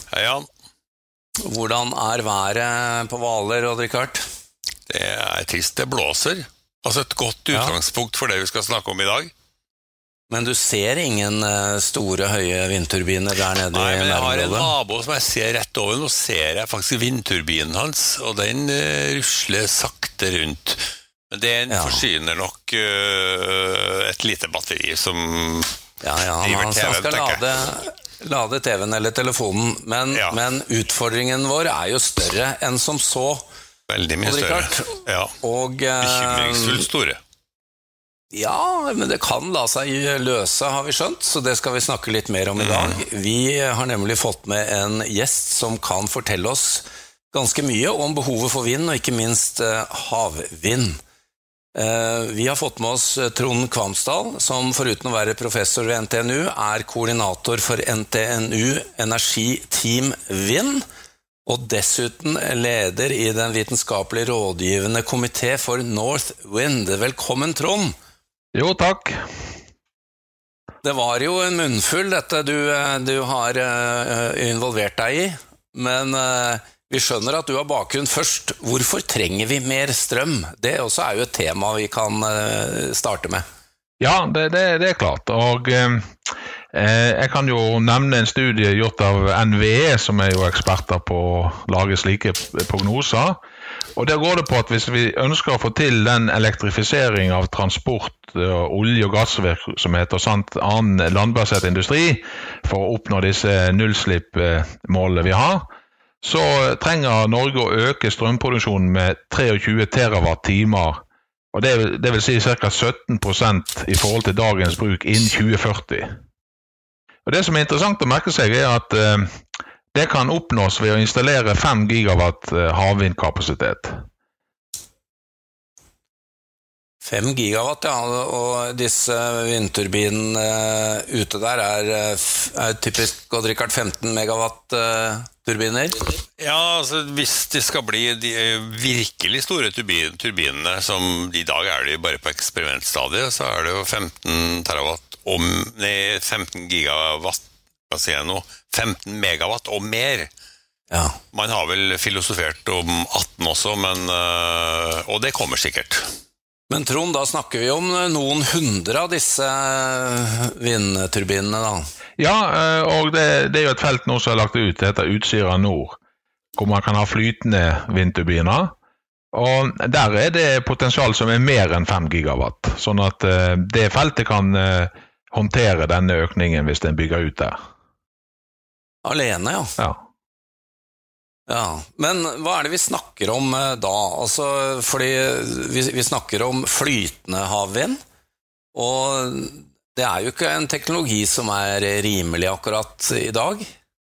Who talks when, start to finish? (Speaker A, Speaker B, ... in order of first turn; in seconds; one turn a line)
Speaker A: 0.1-0.5
Speaker B: 1.4-4.2
Speaker A: 4.9-9.3
Speaker B: 10.3-14.7
Speaker A: 13.5-25.8
Speaker B: 21.7-22.0
Speaker B: 26.0-33.4
Speaker A: 26.4-27.4
Speaker A: 33.9-35.3
Speaker B: 34.2-36.9
Speaker A: 36.0-37.2
Speaker B: 38.3-51.0
Speaker A: 42.6-43.0
Speaker B: 51.7-60.8
Speaker B: 61.5-67.9
Speaker C: 68.5-69.2
Speaker B: 70.8-83.4
Speaker C: 84.0-86.1
Speaker C: 86.7-93.4
Speaker C: 94.0-105.6
Speaker C: 106.2-111.0
Speaker C: 111.5-116.1
Speaker C: 117.2-119.3
Speaker C: 119.9-123.9
Speaker B: 127.0-136.0
Speaker A: 136.4-150.3
Speaker B: 150.9-151.2
Speaker A: 151.3-156.0
Speaker B: 156.7-161.8
Speaker C: 162.2-166.0
Speaker C: 166.6-168.7
Speaker C: 169.3-177.6
Speaker B: 179.0-179.8
Speaker B: 181.5-188.0
Speaker B: 188.7-193.7